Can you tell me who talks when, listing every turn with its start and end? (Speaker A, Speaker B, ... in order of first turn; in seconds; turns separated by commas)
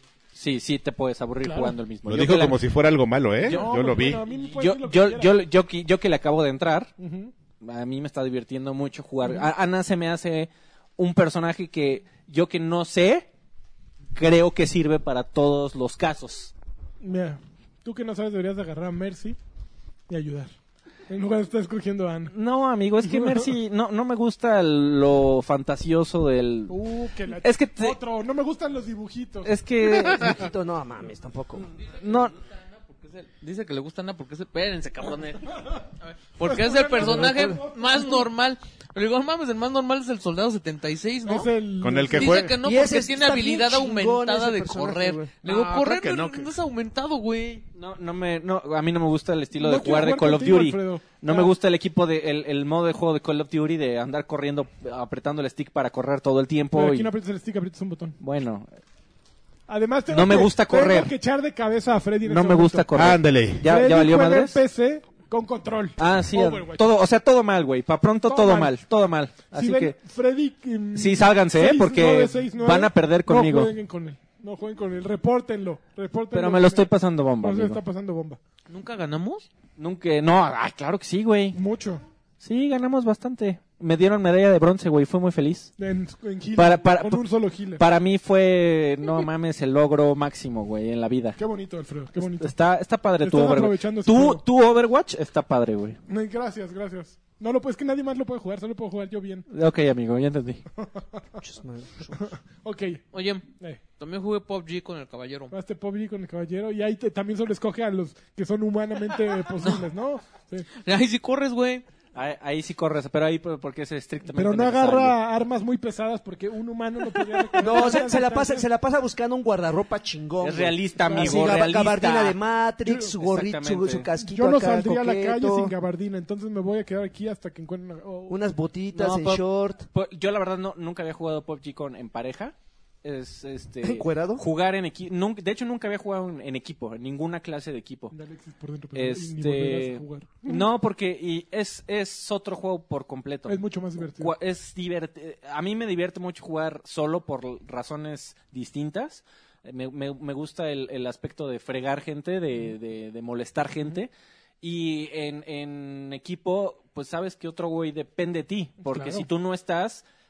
Speaker A: 0.3-2.6, Speaker B: 1.4-1.8, Speaker C: 2.1-4.2, Speaker B: 3.4-5.4, Speaker A: 3.5-6.9, Speaker B: 7.0-7.3, Speaker A: 7.6-13.3, Speaker A: 14.2-16.5, Speaker B: 17.0-19.4, Speaker B: 20.1-20.5, Speaker B: 21.1-22.3, Speaker A: 22.3-26.8, Speaker B: 23.0-23.5, Speaker B: 26.7-29.5, Speaker A: 27.3-28.0, Speaker A: 29.4-30.5, Speaker D: 29.8-31.7, Speaker A: 32.0-32.3, Speaker E: 32.0-32.3, Speaker E: 32.8-41.5, Speaker B: 36.4-38.3, Speaker D: 37.0-37.6, Speaker B: 41.3-42.5, Speaker C: 41.8-42.6, Speaker E: 42.1-47.6, Speaker D: 42.6-45.3, Speaker C: 45.4-46.5, Speaker A: 47.8-57.1, Speaker B: 49.6-51.5, Speaker B: 56.7-58.2, Speaker A: 58.2-58.7, Speaker B: 59.7-63.0, Speaker A: 60.1-61.1, Speaker A: 62.2-64.6, Speaker C: 62.9-63.6, Speaker B: 63.6-66.8, Speaker A: 66.0-70.0, Speaker B: 68.2-68.7, Speaker B: 69.5-76.9, Speaker A: 71.0-73.7, Speaker A: 76.3-77.8, Speaker B: 77.4-78.4, Speaker E: 78.7-79.5, Speaker A: 79.8-81.6, Speaker B: 81.5-82.0, Speaker A: 82.4-85.7, Speaker B: 85.8-87.8, Speaker A: 86.6-87.2, Speaker A: 87.8-91.4, Speaker B: 91.4-92.5, Speaker A: 92.2-96.0, Speaker B: 93.2-94.4, Speaker B: 96.1-99.5, Speaker A: 99.5-100.6, Speaker B: 100.8-101.0, Speaker D: 101.4-102.2, Speaker B: 102.2-103.0, Speaker E: 103.1-103.5, Speaker E: 104.0-105.5, Speaker B: 105.5-110.7, Speaker E: 110.7-111.8, Speaker A: 112.2-115.2, Speaker B: 114.3-118.7, Speaker D: 117.6-125.7, Speaker A: 120.4-122.4, Speaker B: 121.0-121.6, Speaker A: 123.2-124.1, Speaker B: 124.2-128.4, Speaker D: 128.3-129.9, Speaker A: 128.9-138.1, Speaker D: 133.8-134.4, Speaker B: 138.1-140.7, Speaker A: 138.9-143.6, Speaker B: 143.5-144.3, Speaker A: 144.2-154.1, Speaker A: 154.6-160.0, Speaker B: 158.9-159.3